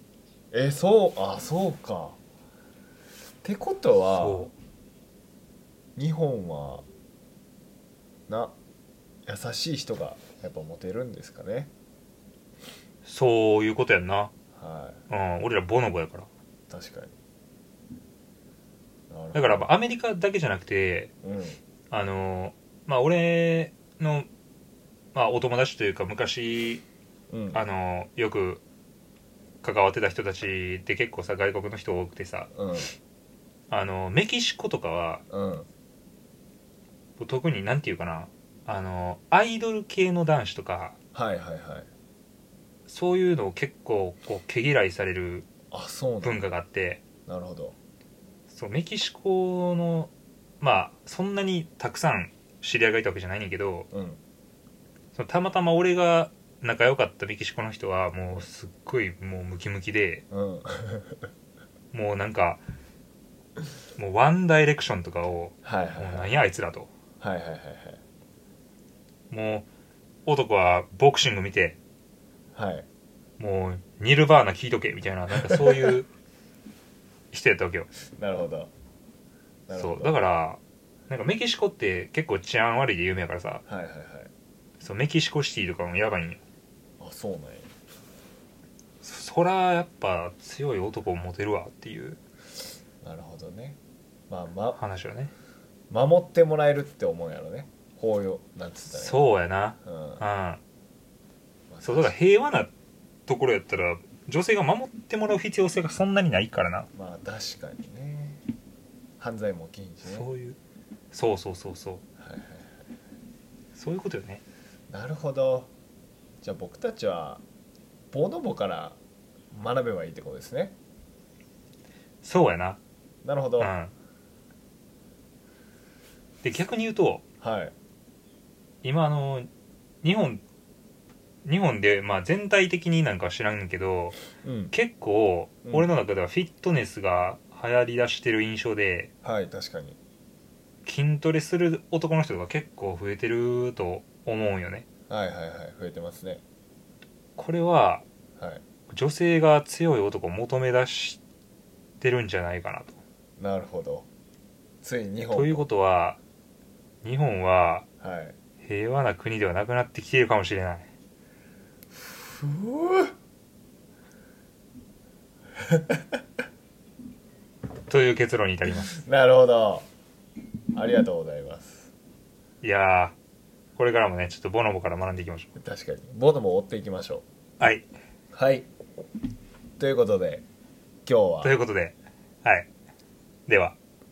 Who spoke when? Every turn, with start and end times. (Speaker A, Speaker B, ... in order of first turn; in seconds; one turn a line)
Speaker A: 0.5-2.2
Speaker A: 3.4-4.5
Speaker B: 4.1-4.5
Speaker A: 6.0-6.9
Speaker A: 8.3-8.6
Speaker A: 9.3-11.7
Speaker B: 13.1-14.3
Speaker A: 14.5-15.0
Speaker B: 15.1-16.3
Speaker A: 16.7-17.1
Speaker A: 19.1-19.7
Speaker B: 19.3-21.1
Speaker A: 21.2-21.6
Speaker B: 21.9-24.3
Speaker B: 25.1-26.9
Speaker A: 27.3-27.6
Speaker B: 27.5-28.6
Speaker B: 29.6-32.5
Speaker A: 32.5-32.9
Speaker B: 33.7-35.2
Speaker A: 35.3-35.7
Speaker B: 37.2-41.0
Speaker A: 41.1-41.9
Speaker B: 42.9-45.5
Speaker A: 45.7-46.4
Speaker B: 46.2-47.0
Speaker A: 47.3-47.8
Speaker B: 48.5-53.9
Speaker A: 53.9-54.2
Speaker B: 55.1-60.2
Speaker A: 60.3-61.3
Speaker B: 61.9-62.6
Speaker B: 64.0-66.9
Speaker A: 65.6-66.3
Speaker A: 67.2-68.0
Speaker B: 69.3-69.7
Speaker B: 70.3-71.8
Speaker A: 72.5-72.9
Speaker B: 73.4-76.1
Speaker A: 75.4-76.0
Speaker B: 77.3-77.9
Speaker A: 78.1-78.7
Speaker A: 79.7-80.2
Speaker B: 79.7-83.6
Speaker A: 83.7-84.3
Speaker B: 84.8-86.4
Speaker A: 87.0-87.7
Speaker B: 89.0-92.2
Speaker A: 93.0-93.8
Speaker A: 94.3-94.8
Speaker B: 94.8-95.3
Speaker A: 95.9-99.3
Speaker B: 98.9-100.6
Speaker A: 99.8-100.2
Speaker A: 101.7-102.2
Speaker B: 101.8-102.7
Speaker B: 103.3-106.9
Speaker A: 107.0-108.4
Speaker A: 109.2-110.3
Speaker B: 110.0-110.6
Speaker B: 111.1-112.0
Speaker A: 112.2-112.8
Speaker B: 113.8-114.4
Speaker A: 114.9-115.7
Speaker A: 116.4-117.4
Speaker A: 118.1-119.0
Speaker A: 119.5-120.8
Speaker B: 122.2-122.8
Speaker A: 123.2-123.7
Speaker B: 123.6-123.9
Speaker B: 126.4-127.2
Speaker A: 127.4-127.7
Speaker B: 128.8-129.5
Speaker B: 130.0-130.4
Speaker B: 131.4-134.2
Speaker A: 134.4-134.8
Speaker B: 134.7-139.1
Speaker A: 135.7-135.9
Speaker A: 139.2-140.0
Speaker B: 140.8-144.9
Speaker A: 145.1-146.4
Speaker B: 147.4-148.1
Speaker A: 148.4-148.6
Speaker B: 148.9-151.2
Speaker B: 152.0-153.0
Speaker A: 153.4-154.1
Speaker A: 154.8-155.7
Speaker B: 155.3-156.2
Speaker B: 157.0-157.9
Speaker A: 158.0-158.4
Speaker B: 158.6-160.9
Speaker A: 162.0-163.1
Speaker A: 165.7-166.0
Speaker B: 167.9-168.9
Speaker A: 168.7-169.9
Speaker A: 170.7-171.9
Speaker B: 172.6-173.2
Speaker B: 173.8-175.5
Speaker A: 175.6-177.2
Speaker B: 177.6-177.9
Speaker A: 178.3-178.7
Speaker A: 179.8-180.4
Speaker A: 181.1-181.6
Speaker B: 181.4-182.7
Speaker B: 183.5-183.8